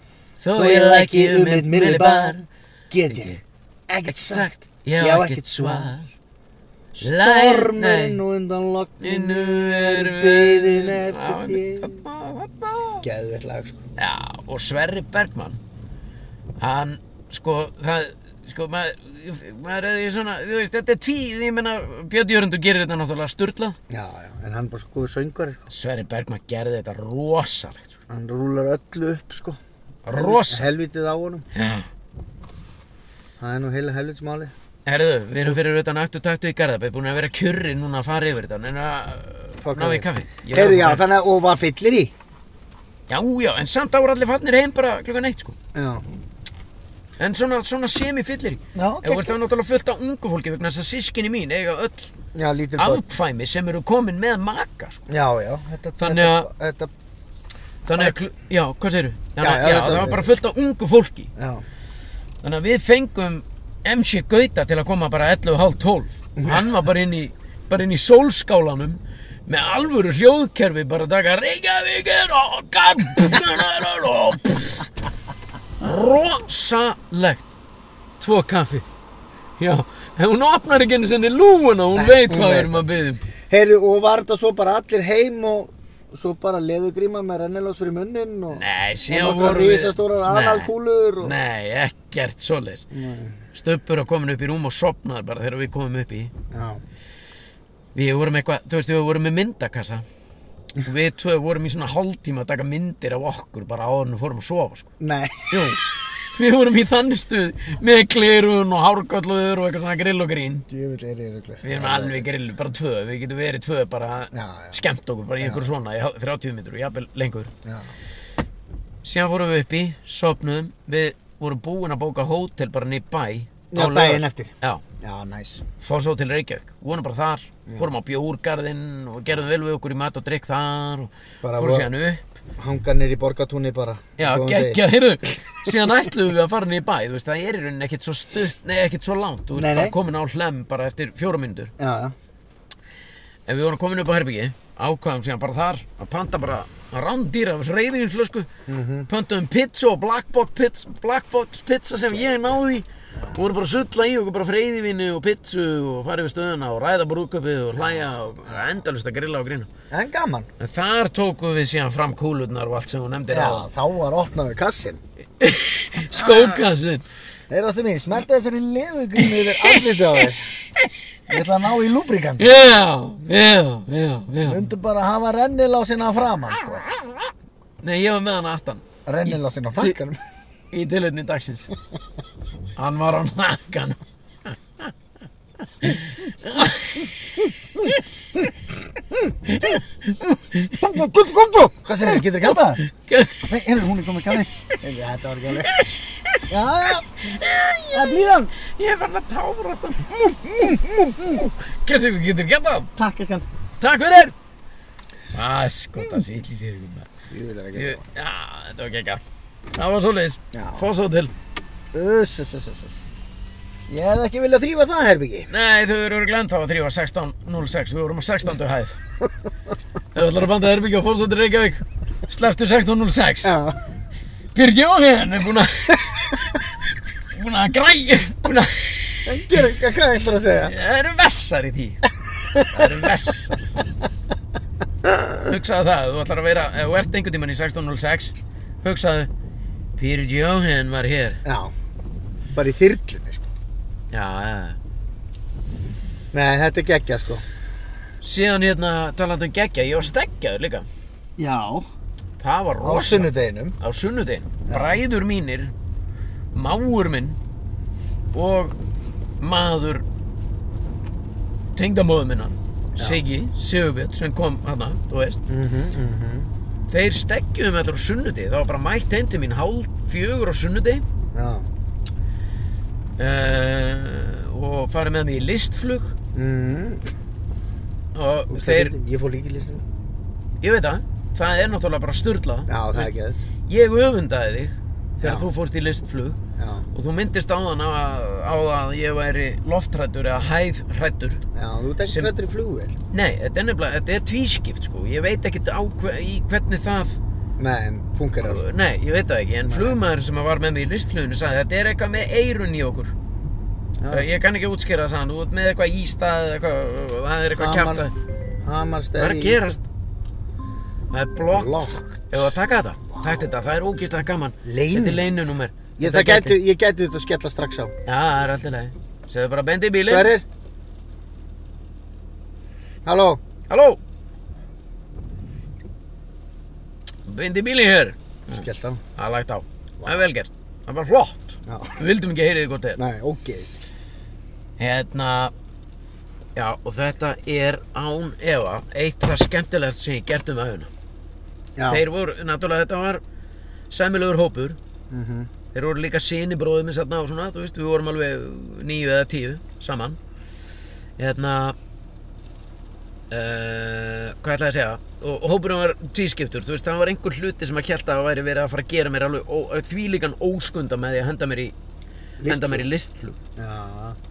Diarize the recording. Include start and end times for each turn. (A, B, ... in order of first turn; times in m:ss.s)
0:00.4-0:02.4 A
0:00.5-0:05.9 B
0:03.1-0:03.4 A
0:04.3-0:06.1 A
0:07.0-0:12.0 B
0:07.0-0:08.2 A
0:09.0-0:13.0 A
0:13.0-0:13.8 B
0:14.0-0:15.6 A
0:16.6-0:23.8 A
0:23.9-0:25.7 B
0:25.7-0:27.9 A
0:28.1-0:29.6 B
0:30.0-0:30.7 A
0:30.1-0:31.4 B
0:31.5-0:31.9 A
0:33.4-0:34.5 B
0:34.8-0:41.0 A
0:39.6-0:42.1 B
0:43.1-0:45.6 A
0:45.7-0:46.0 B
0:47.2-0:52.1 A
0:48.7-0:49.4 B
0:52.3-0:53.0 B
0:52.8-0:55.1 A
0:55.1-0:56.9 B
0:56.0-0:56.5 A
0:57.8-1:01.3 A
0:59.4-1:00.3 B
1:01.4-1:01.6 B
1:02.4-1:14.9 A
1:06.4-1:06.7 B
1:15.8-1:17.5 A
1:18.2-1:18.8 A
1:19.6-1:23.2 A
1:22.0-1:22.8 B
1:23.5-1:31.3 B
1:28.5-1:32.9 A
1:32.9-1:33.4 B
1:33.5-1:36.3 A
1:36.5-1:36.8 B
1:37.9-1:40.0 A
1:40.8-1:44.9 A
1:45.0-1:45.8 B
1:45.5-1:50.7 A
1:50.7-1:52.3 B
1:51.6-1:57.5 A
1:54.3-1:54.8 B
1:55.4-1:55.7 B
1:57.6-1:57.9 B
1:59.0-2:04.8 A
2:03.7-2:05.6 B
2:05.8-2:12.2 A
2:11.4-2:11.9 B
2:12.6-2:14.8 B
2:14.2-2:21.7 A
2:19.5-2:19.9 B
2:21.8-2:22.1 B
2:23.5-2:28.5 A
2:28.7-2:29.1 B
2:29.1-2:39.7 A
2:37.8-2:38.6 B
2:39.9-2:40.5 B
2:40.6-2:43.7 A
2:43.3-2:45.0 B
2:45.4-2:47.0 A
2:46.2-2:46.5 B
2:47.5-2:50.5 B
2:49.2-2:50.2 A
2:51.3-2:52.5 B
2:52.4-2:54.7 A
2:54.4-2:56.9 B
2:57.8-3:00.0 A
2:59.0-3:00.2 B
3:00.7-3:01.7 A
3:02.8-3:04.9 A
3:05.8-3:08.0 A
3:09.4-3:11.1 A
3:10.8-3:12.8 B
3:12.0-3:13.5 A
3:13.5-3:15.8 B
3:15.6-3:16.5 A
3:16.5-3:17.3 B
3:17.2-3:22.9 A
3:17.9-3:18.5 B
3:20.6-3:21.4 B
3:23.0-3:23.4 B
3:23.8-3:24.3 A
3:25.3-3:27.1 A
3:27.3-3:28.0 B
3:27.7-3:29.2 A
3:29.7-3:31.3 A
3:30.5-3:30.9 B
3:31.9-3:33.0 B
3:33.9-3:35.5 B
3:35.5-3:39.0 A
3:40.1-3:43.6 A
3:43.4-3:43.8 B
3:44.5-3:46.6 A
3:47.3-3:49.4 A
3:49.2-3:50.7 B
3:50.6-3:53.7 A
3:55.0-3:55.4 B
3:55.4-3:59.3 A
4:00.0-4:01.4 A
4:01.4-4:01.7 B
4:02.5-4:03.5 B
4:04.1-4:04.8 A
4:06.3-4:07.4 B
4:08.2-4:10.9 A
4:11.4-4:11.9 B
4:12.4-4:15.7 A
4:12.8-4:13.8 B
4:14.7-4:15.0 B
4:16.5-4:17.4 A
4:18.3-4:18.8 A
4:19.4-4:20.0 A
4:21.8-4:25.4 A
4:25.5-4:26.5 B
4:26.9-4:31.0 A
4:31.3-4:31.7 B
4:33.2-4:36.1 A
4:36.3-4:37.1 B
4:38.1-4:38.9 A
4:38.5-4:39.8 B
4:40.6-4:43.1 A
4:42.7-4:43.4 B
4:43.7-4:46.4 A
4:45.2-4:45.5 B
4:46.6-4:46.8 B
4:46.9-4:51.4 A
4:51.5-4:53.0 B
4:52.0-4:52.3 A
4:53.1-4:57.2 A
4:57.6-4:58.6 B
4:58.4-5:03.1 A
4:59.6-5:00.0 B
5:04.0-5:04.3 B
5:04.1-5:08.1 A
5:07.5-5:08.0 B
5:08.6-5:09.7 B
5:09.2-5:09.8 A
5:11.1-5:16.6 A
5:11.5-5:12.3 B
5:13.1-5:13.5 B
5:14.6-5:15.2 B
5:16.0-5:17.9 B
5:18.0-5:20.3 A
5:20.0-5:20.4 B
5:23.0-5:23.4 B
5:23.7-5:24.0 A
5:27.3-5:33.0 A
5:28.5-5:29.0 B
5:30.0-5:30.2 B
5:31.7-5:31.9 B
5:33.0-5:33.7 B
5:34.8-5:35.5 A
5:36.5-5:40.9 A
5:41.8-5:42.0 B
5:41.9-5:43.2 A
5:43.9-5:44.8 A
5:45.1-5:45.5 B
5:45.7-5:50.2 A
5:51.2-5:51.8 A
5:53.3-6:01.7 A
6:02.4-6:02.9 B
6:02.4-6:03.4 A
6:03.6-6:04.2 B